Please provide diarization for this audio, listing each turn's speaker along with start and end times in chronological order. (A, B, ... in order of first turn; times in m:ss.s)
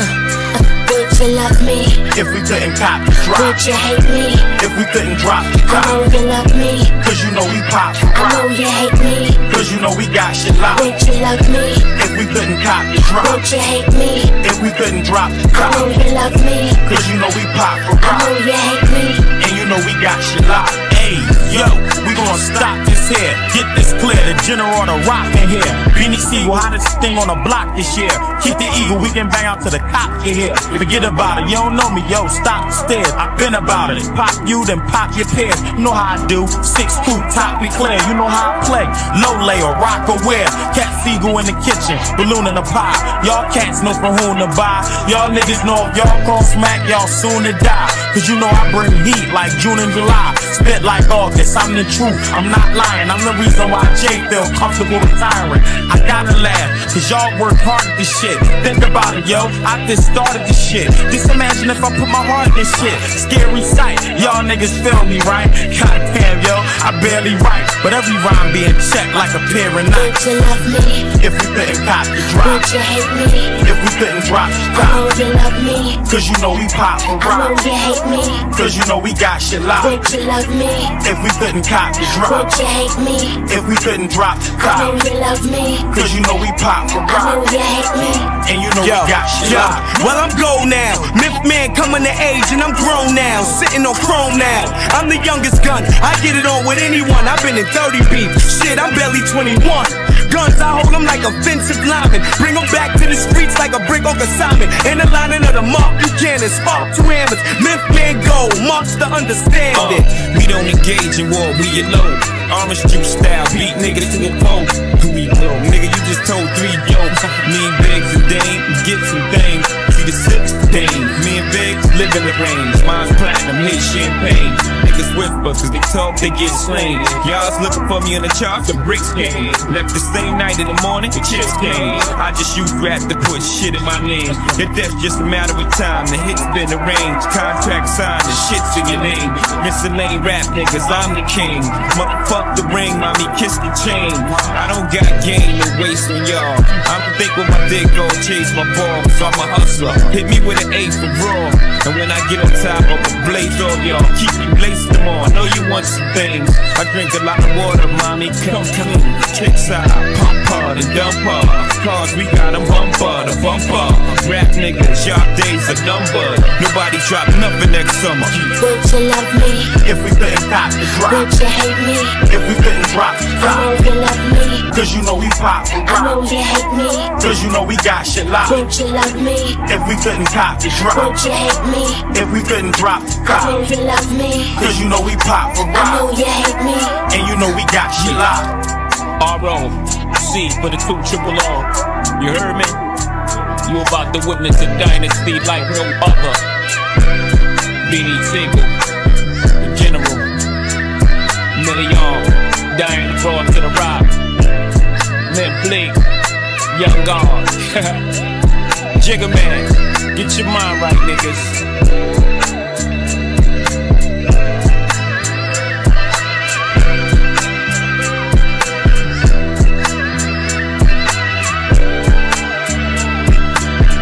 0:00.5-0:02.1 A
0:02.1-0:03.6 B
0:03.3-0:04.5 A
0:04.5-0:06.0 B
0:05.6-0:06.9 A
0:07.0-0:08.5 B
0:08.1-0:09.6 A
0:09.5-0:10.9 B
0:10.7-0:11.9 A
0:11.9-0:13.4 B
0:13.2-0:14.4 A
0:14.4-0:16.0 B
0:15.5-0:17.0 A
0:16.8-0:18.3 B
0:18.0-0:19.3 A
0:19.3-1:10.2 B
1:09.9-1:11.1 A
1:11.0-1:12.7 B
1:12.4-1:13.6 A
1:13.6-1:15.1 B
1:14.7-1:16.0 A
1:16.0-1:17.6 B
1:17.2-1:18.5 A
1:18.5-1:20.0 B
1:19.8-1:21.0 A
1:21.0-1:22.5 B
1:22.2-1:23.4 A
1:23.4-1:25.0 B
1:24.7-1:25.9 A
1:25.9-1:27.4 B
1:27.1-1:28.3 A
1:28.3-1:30.0 B
1:28.8-1:50.1 C
1:49.7-2:48.5 D
2:48.6-2:49.7 A
2:49.7-2:51.3 B
2:51.0-2:52.2 A
2:52.2-2:53.8 B
2:53.4-2:54.7 A
2:54.7-2:56.2 B
2:55.9-2:57.1 A
2:57.2-2:58.6 B
2:58.4-2:59.6 A
2:59.6-3:01.2 B
3:00.9-3:02.1 A
3:02.1-3:03.6 B
3:03.3-3:04.6 A
3:04.5-3:06.1 B
3:05.7-3:07.0 A
3:07.1-3:08.5 B
3:08.0-3:08.2 D
3:09.2-3:12.8 D
3:13.6-3:16.4 D
3:17.8-3:18.7 D
3:19.6-3:20.3 D
3:21.5-3:24.1 D
3:25.3-3:26.0 D
3:26.7-3:28.0 D
3:29.0-3:31.6 D